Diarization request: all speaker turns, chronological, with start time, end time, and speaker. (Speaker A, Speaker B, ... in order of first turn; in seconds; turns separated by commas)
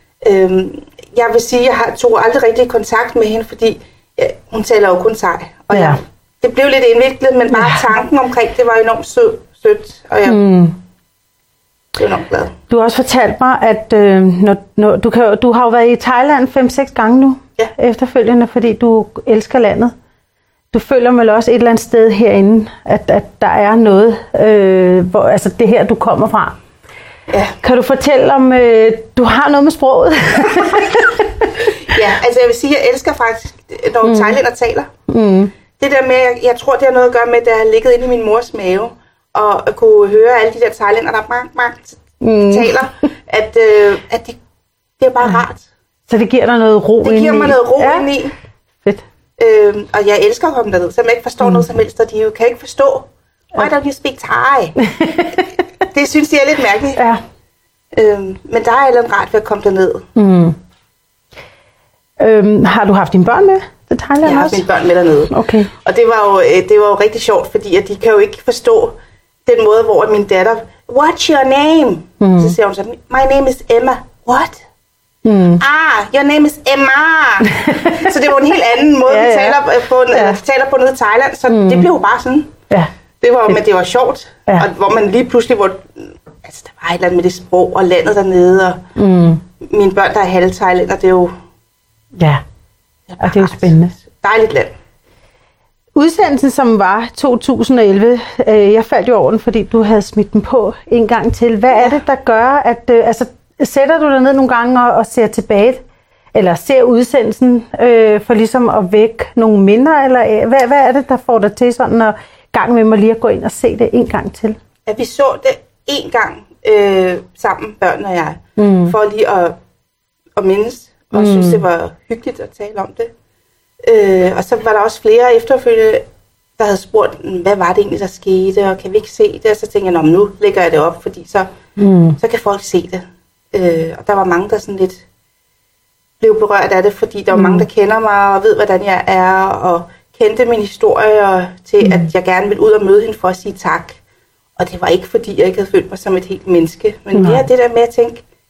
Speaker A: 0.2-10.4, Speaker B: 5.7-6.0, Speaker B: 7.5-7.8, Speaker B: 10.2-10.8, Speaker A: 11.9-12.5, Speaker B: 12.7-19.9, Speaker B: 20.7-26.6, Speaker A: 27.3-27.6, Speaker B: 27.6-31.6, Speaker A: 31.9-34.9, Speaker B: 34.0-34.4, Speaker B: 35.1-35.5, Speaker A: 35.8-44.4, Speaker B: 42.2-42.9, Speaker A: 45.0-45.7, Speaker B: 46.1-48.2, Speaker A: 47.0-48.3, Speaker A: 49.4-54.7, Speaker B: 54.8-55.4, Speaker A: 55.9-57.0, Speaker B: 57.0-57.2, Speaker A: 57.9-60.0, Speaker B: 60.1-60.6, Speaker B: 62.2-64.7, Speaker A: 64.2-65.3, Speaker B: 65.3-65.7, Speaker A: 65.8-74.6, Speaker B: 72.2-72.5, Speaker B: 75.2-75.6, Speaker A: 75.6-82.5, Speaker B: 77.5-78.0, Speaker B: 79.0-80.4, Speaker B: 81.5-81.9, Speaker A: 83.2-88.8, Speaker B: 88.9-89.4, Speaker A: 89.6-91.3, Speaker B: 92.2-92.4, Speaker A: 93.1-94.7, Speaker B: 93.2-94.0, Speaker B: 95.9-105.8, Speaker A: 101.7-102.0, Speaker B: 106.3-114.6, Speaker A: 114.8-119.5, Speaker B: 118.6-118.9, Speaker A: 120.4-123.1, Speaker B: 121.1-121.6, Speaker A: 123.8-126.0, Speaker A: 126.6-131.5, Speaker B: 131.8-132.2, Speaker A: 132.2-135.0, Speaker A: 136.2-144.0, Speaker B: 137.3-137.7, Speaker B: 141.8-142.1, Speaker A: 144.6-148.2, Speaker B: 147.1-147.5